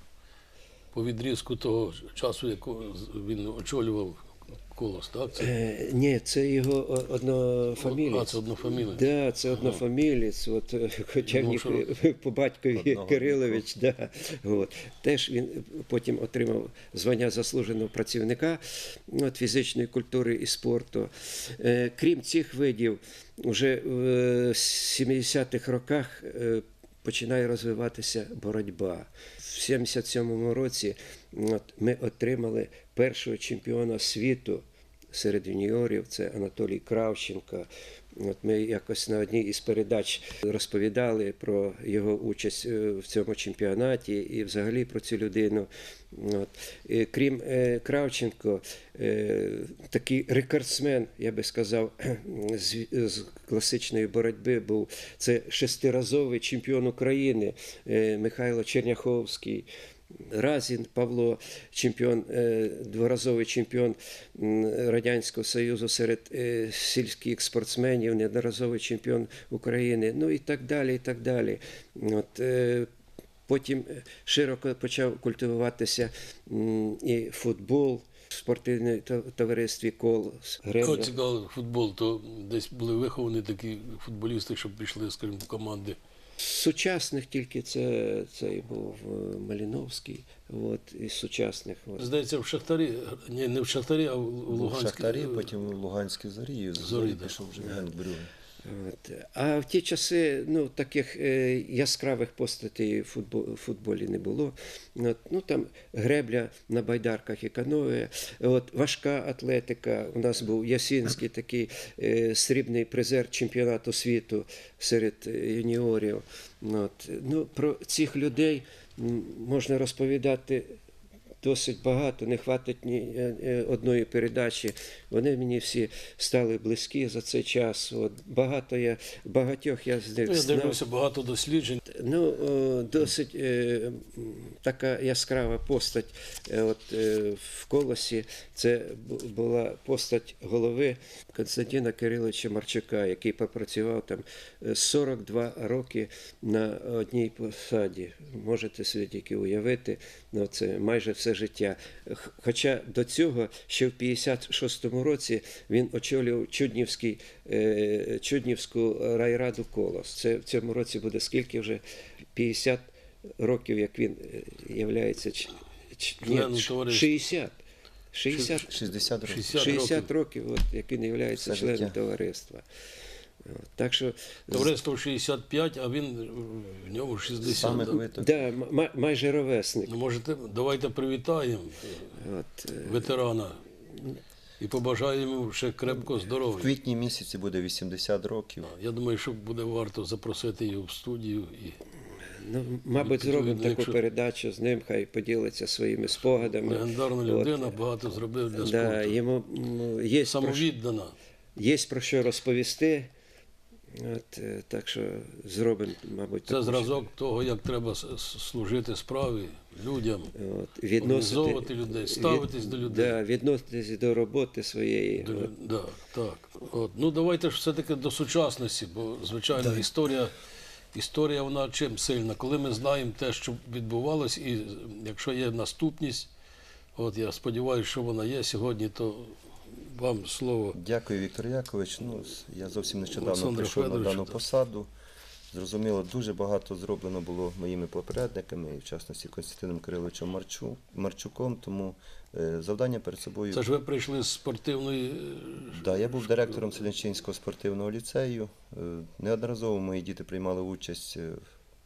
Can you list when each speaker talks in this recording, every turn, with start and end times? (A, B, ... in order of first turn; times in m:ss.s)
0:00.9-0:05.5 A
0:05.4-0:08.4 B
0:07.8-0:09.0 A
0:08.9-0:59.7 B
0:11.3-0:11.8 A
0:12.7-0:13.6 C
1:00.2-1:12.9 B
1:13.5-1:21.1 B
1:20.8-1:26.0 A
1:26.4-1:32.1 B
1:32.0-1:35.4 A
1:34.5-1:38.3 C
1:36.8-1:37.4 A
1:38.6-2:00.8 B
2:01.4-2:10.8 B
2:10.3-2:11.8 A
2:11.9-2:41.8 B
2:42.3-2:47.6 B
2:46.2-2:47.2 A
2:48.1-2:48.8 B
2:48.5-2:49.9 C
2:49.2-2:50.1 A
2:49.5-2:52.6 B
2:51.3-2:52.0 C
2:53.4-2:54.8 B
2:54.5-2:58.0 A
2:57.4-2:58.4 C
2:58.2-3:00.0 B
2:59.9-3:02.1 A
3:02.1-3:03.1 B
3:02.8-3:03.6 A
3:04.6-3:06.7 A
3:06.5-3:08.7 C
3:08.6-3:11.8 A
3:12.4-3:17.8 B
3:13.0-3:14.0 A
3:16.3-3:19.2 A
3:18.5-3:20.7 B
3:20.2-3:21.1 A
3:21.6-3:23.1 B
3:23.9-3:27.0 B
3:26.5-3:30.3 A
3:30.3-3:35.5 B
3:31.0-3:33.1 A
3:35.2-3:40.3 A
3:40.9-3:46.3 A
3:47.0-3:50.8 A
3:50.7-3:54.9 C
3:53.1-3:54.4 A
3:55.5-4:03.6 C
4:03.5-4:06.0 A
4:05.7-4:11.4 C